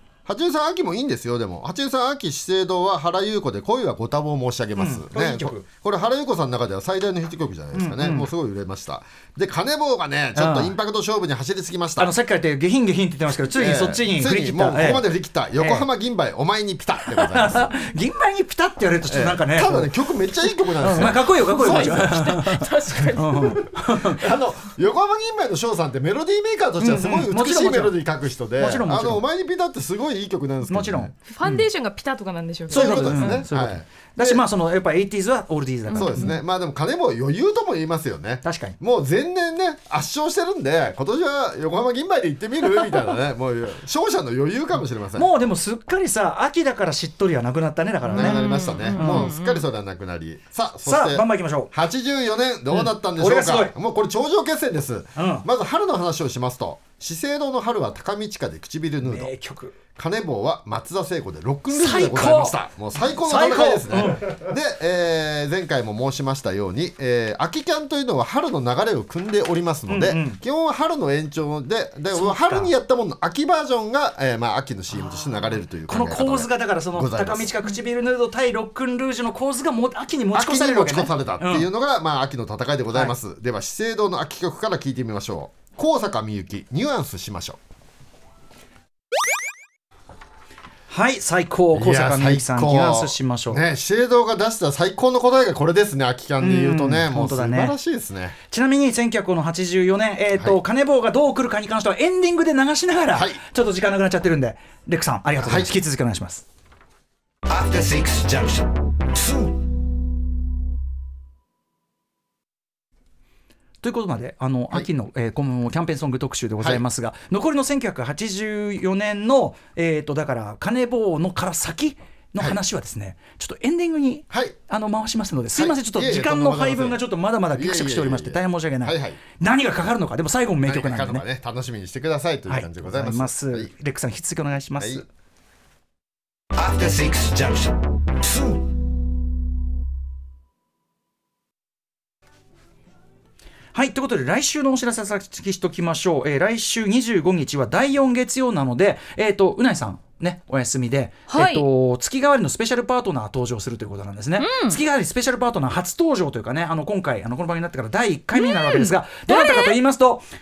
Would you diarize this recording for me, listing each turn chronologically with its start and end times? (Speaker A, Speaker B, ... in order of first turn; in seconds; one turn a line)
Speaker A: 0.2-12.1
Speaker B: 4.8-5.6
Speaker B: 7.7-8.3
Speaker B: 10.3-10.8
Speaker B: 12.0-15.9
Speaker A: 13.5-17.8
Speaker B: 17.0-19.9
Speaker A: 19.0-22.4
Speaker B: 20.8-24.3
Speaker C: 21.5-23.7
Speaker A: 23.2-31.1
Speaker B: 26.8-27.9
Speaker B: 28.6-29.2
Speaker B: 30.7-31.6
Speaker C: 31.3-33.4
Speaker A: 32.7-34.4
Speaker B: 32.7-36.3
Speaker C: 35.9-36.3
Speaker A: 35.9-45.3
Speaker B: 38.4-38.8
Speaker B: 45.1-49.3
Speaker C: 48.0-49.6
Speaker A: 48.1-59.3
Speaker B: 50.8-51.7
Speaker B: 52.7-53.7
Speaker B: 55.1-55.5
Speaker B: 59.0-59.8
Speaker A: 60.0-77.5
Speaker B: 61.7-62.6
Speaker B: 63.1-64.3
Speaker B: 69.9-70.4
Speaker B: 72.1-72.7
Speaker B: 74.9-81.7
Speaker A: 80.3-87.6
Speaker B: 90.9-93.6
Speaker A: 91.7-98.3
Speaker B: 96.4-97.7
Speaker B: 98.5-106.4
Speaker A: 103.1-103.4
Speaker A: 105.4-105.8
Speaker D: 107.5-109.5
Speaker B: 113.8-131.2
Speaker A: 124.3-124.5
Speaker A: 125.5-129.2
Speaker A: 130.6-133.7
Speaker B: 132.5-135.0
Speaker A: 134.8-135.0
Speaker D: 136.5-138.6
Speaker B: 143.7-160.2
Speaker C: 151.3-151.6
Speaker C: 154.4-154.8
Speaker C: 158.3-159.7